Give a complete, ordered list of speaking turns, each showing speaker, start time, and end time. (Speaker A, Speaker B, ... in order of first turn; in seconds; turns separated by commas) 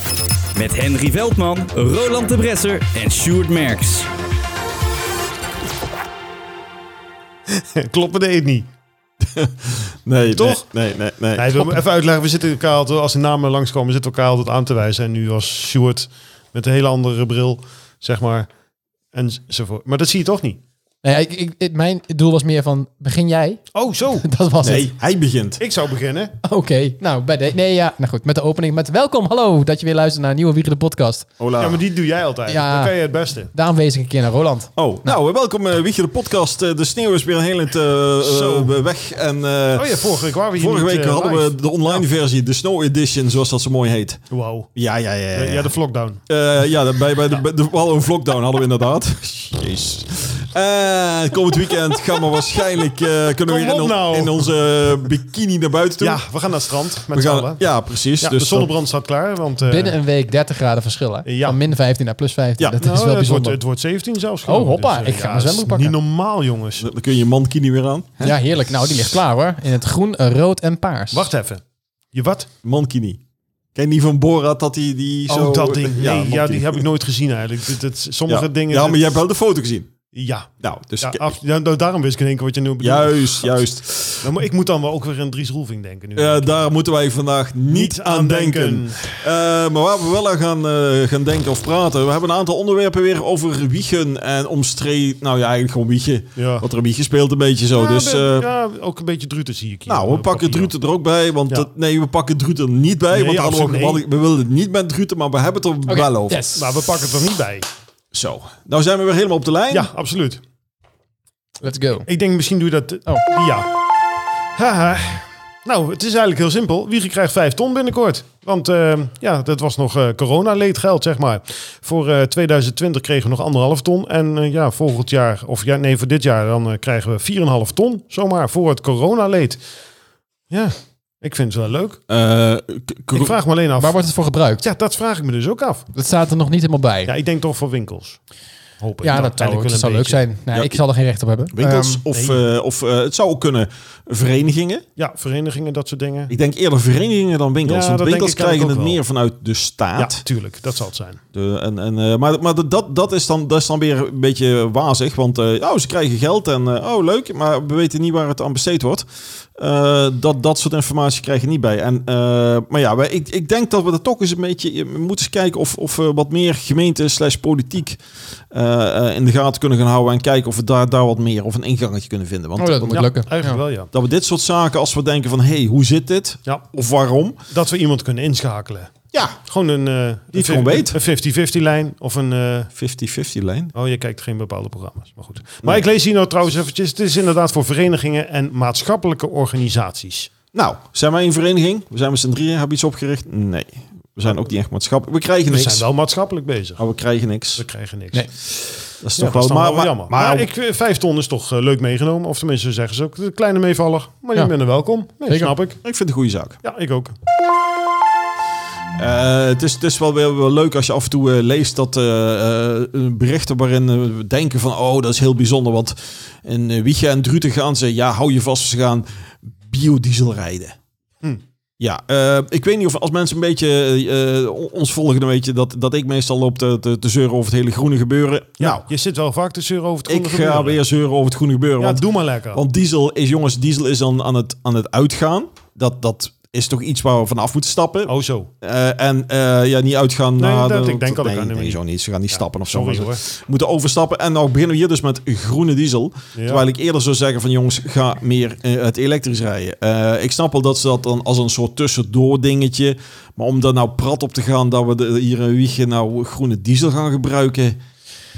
Speaker A: 0.5-4.1, Speaker B: 7.5-8.7, Speaker C: 9.3-11.7, Speaker B: 10.3-10.6, Speaker B: 11.3-18.5, Speaker B: 19.1-20.6, Speaker D: 21.0-23.6, Speaker B: 23.7-24.3, Speaker D: 24.2-24.9, Speaker C: 24.6-25.6, Speaker B: 25.6-26.4, Speaker D: 26.4-31.3, Speaker C: 31.4-31.8, Speaker B: 31.6-33.5, Speaker D: 32.5-33.0, Speaker D: 33.5-35.1, Speaker C: 34.8-45.7, Speaker B: 38.2-38.7, Speaker B: 39.8-42.0, Speaker B: 44.3-44.7, Speaker B: 45.3-46.2, Speaker C: 46.3-56.2, Speaker B: 53.5-54.5, Speaker B: 56.0-57.6, Speaker C: 57.1-58.7, Speaker B: 58.2-60.0, Speaker D: 59.7-63.6, Speaker B: 61.2-61.6, Speaker B: 62.8-66.9, Speaker D: 64.4-65.9, Speaker C: 66.8-68.4, Speaker D: 68.2-71.3, Speaker B: 71.1-71.6, Speaker B: 72.1-72.5, Speaker C: 72.6-73.2, Speaker C: 73.7-76.8, Speaker B: 75.3-79.0, Speaker C: 78.3-79.9, Speaker B: 80.1-83.6, Speaker C: 80.6-81.3, Speaker C: 82.8-84.3, Speaker B: 84.2-86.6, Speaker C: 86.2-98.5, Speaker B: 87.7-89.3, Speaker B: 96.4-96.7, Speaker B: 97.7-100.7, Speaker C: 99.9-106.4, Speaker B: 103.1-104.0, Speaker D: 105.9-106.6, Speaker B: 106.5-107.7, Speaker C: 108.1-109.9, Speaker B: 109.7-110.4, Speaker D: 111.6-112.1, Speaker B: 112.1-113.7, Speaker B: 114.5-129.6, Speaker B: 130.5-132.0, Speaker C: 132.1-133.3, Speaker B: 133.1-134.0, Speaker D: 133.8-134.6, Speaker B: 134.6-135.8, Speaker D: 135.9-137.1, Speaker B: 137.1-138.2, Speaker B: 138.8-140.2, Speaker D: 139.0-142.0, Speaker C: 141.5-144.8, Speaker B: 141.6-142.4, Speaker B: 145.0-146.3, Speaker C: 146.3-150.2, Speaker B: 147.7-149.0, Speaker B: 150.0-151.2, Speaker C: 151.3-159.1, Speaker C: 159.6-173.1, Speaker D: 172.6-173.6, Speaker B: 172.9-173.9, Speaker C: 173.9-177.4, Speaker B: 177.5-178.9, Speaker C: 179.1-179.4, Speaker B: 179.5-182.7, Speaker C: 180.3-181.0, Speaker C: 182.8-183.7, Speaker B: 183.8-190.3, Speaker C: 190.5-195.8, Speaker B: 195.5-196.8, Speaker C: 196.8-197.7, Speaker B: 197.6-198.2, Speaker C: 198.5-200.5, Speaker B: 199.2-205.8, Speaker D: 205.3-205.5, Speaker C: 205.8-206.6, Speaker B: 206.6-207.2, Speaker C: 209.0-220.8, Speaker C: 221.8-228.8, Speaker B: 228.6-230.8, Speaker C: 230.1-257.8, Speaker B: 231.8-232.6, Speaker B: 238.1-238.5, Speaker B: 240.4-243.2, Speaker B: 246.3-246.6